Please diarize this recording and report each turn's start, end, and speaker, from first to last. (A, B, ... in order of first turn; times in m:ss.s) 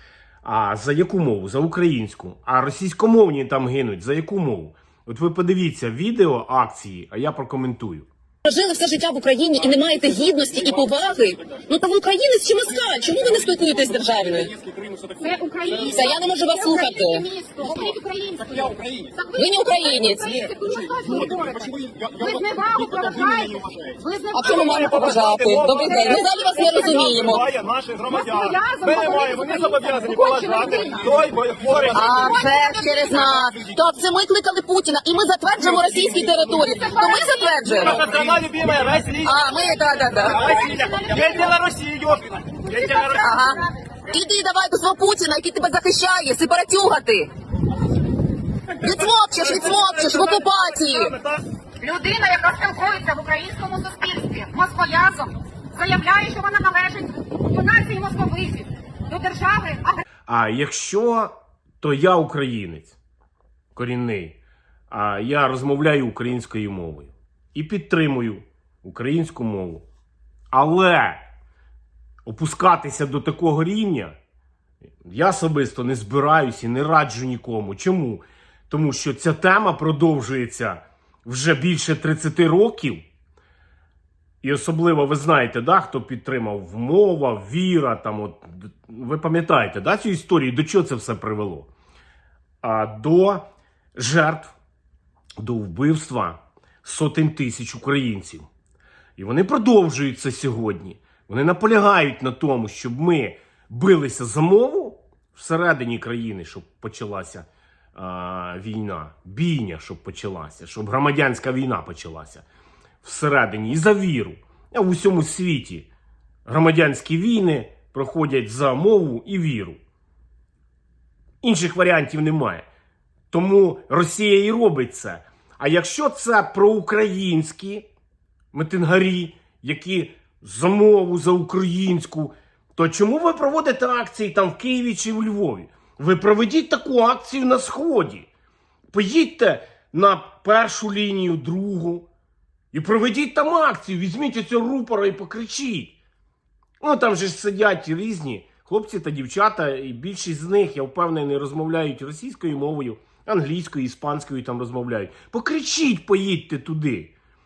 0:00.4-0:08.1 A
0:08.4-0:14.6 B
0:15.2-0:25.2 C
0:15.7-0:17.3 B
0:19.3-0:20.6 B
0:21.1-0:21.4 D
0:22.9-0:23.8 D
0:24.3-0:27.4 B
0:24.5-0:32.4 D
0:25.8-0:27.0 C
0:28.1-0:31.2 C
0:31.9-0:33.5 C
0:31.9-0:38.0 B
0:36.5-0:38.4 C
0:37.6-0:39.4 D
0:39.2-0:40.6 B
0:40.2-0:41.5 C
0:40.2-0:43.3 D
0:42.7-0:43.9 C
0:43.1-0:47.3 B
0:48.8-0:51.1 B
0:48.8-0:51.4 D
0:51.8-1:00.0 C
1:00.3-1:03.0 A
1:03.7-1:04.4 A
1:04.9-1:09.8 A
1:10.5-1:11.2 A
1:12.2-1:14.2 A
1:15.0-1:23.0 A
1:24.4-1:31.7 A
1:32.6-1:34.5 A
1:35.4-1:38.5 A
1:39.2-1:52.4 A
1:53.0-1:55.9 A
1:56.4-1:59.8 A
2:01.4-2:02.7 A
2:03.3-2:07.8 A
2:08.5-2:18.3 A
2:18.9-2:22.1 A
2:22.7-2:26.0 A
2:26.8-2:37.1 A